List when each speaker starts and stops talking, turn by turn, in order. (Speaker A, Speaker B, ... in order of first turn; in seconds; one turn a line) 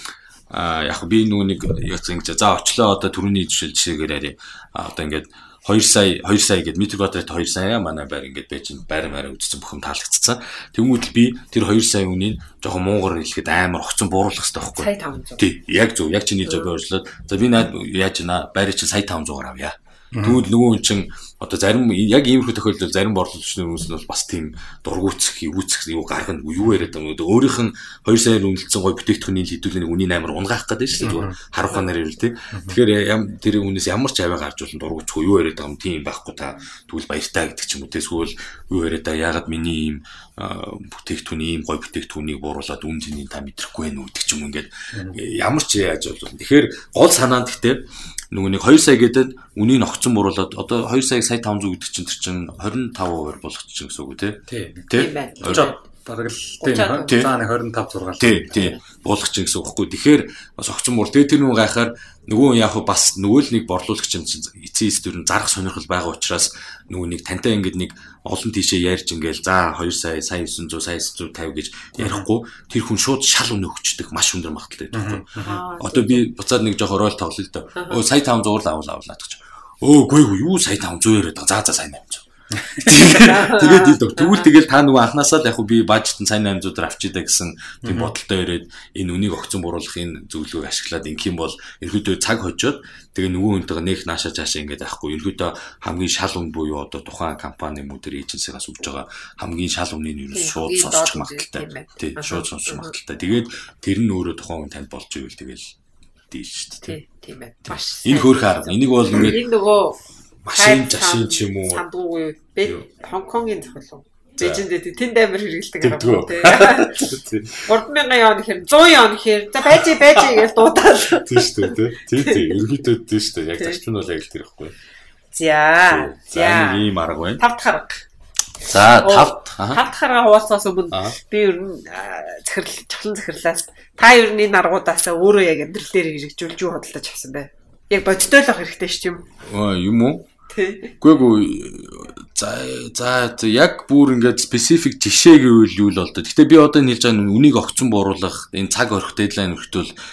Speaker A: 0.5-55.7
Speaker B: 14.8-15.4
Speaker C: 20.1-20.4
Speaker C: 31.0-31.4
Speaker C: 44.9-45.2
Speaker C: 54.5-58.6
Speaker B: 54.9-55.8
Speaker B: 56.6-57.2
Speaker A: 57.0-57.3
Speaker A: 58.2-82.2
Speaker C: 72.0-72.3
Speaker C: 74.9-75.6
Speaker B: 75.4-76.3
Speaker B: 77.8-78.0
Speaker C: 82.6-83.5
Speaker A: 82.7-105.7
Speaker B: 83.0-84.5
Speaker C: 87.8-88.1
Speaker B: 100.3-102.9
Speaker A: 106.3-107.0
Speaker B: 106.8-110.0
Speaker A: 107.7-109.5
Speaker A: 110.4-111.8
Speaker B: 110.5-117.0
Speaker A: 115.8-117.6
Speaker B: 117.6-122.5
Speaker A: 121.1-124.7
Speaker B: 125.3-126.8
Speaker A: 125.9-127.4
Speaker B: 127.4-128.0
Speaker A: 128.6-129.8
Speaker B: 129.0-139.2
Speaker A: 130.9-131.2
Speaker A: 139.4-140.3
Speaker B: 140.5-140.9
Speaker A: 141.0-149.9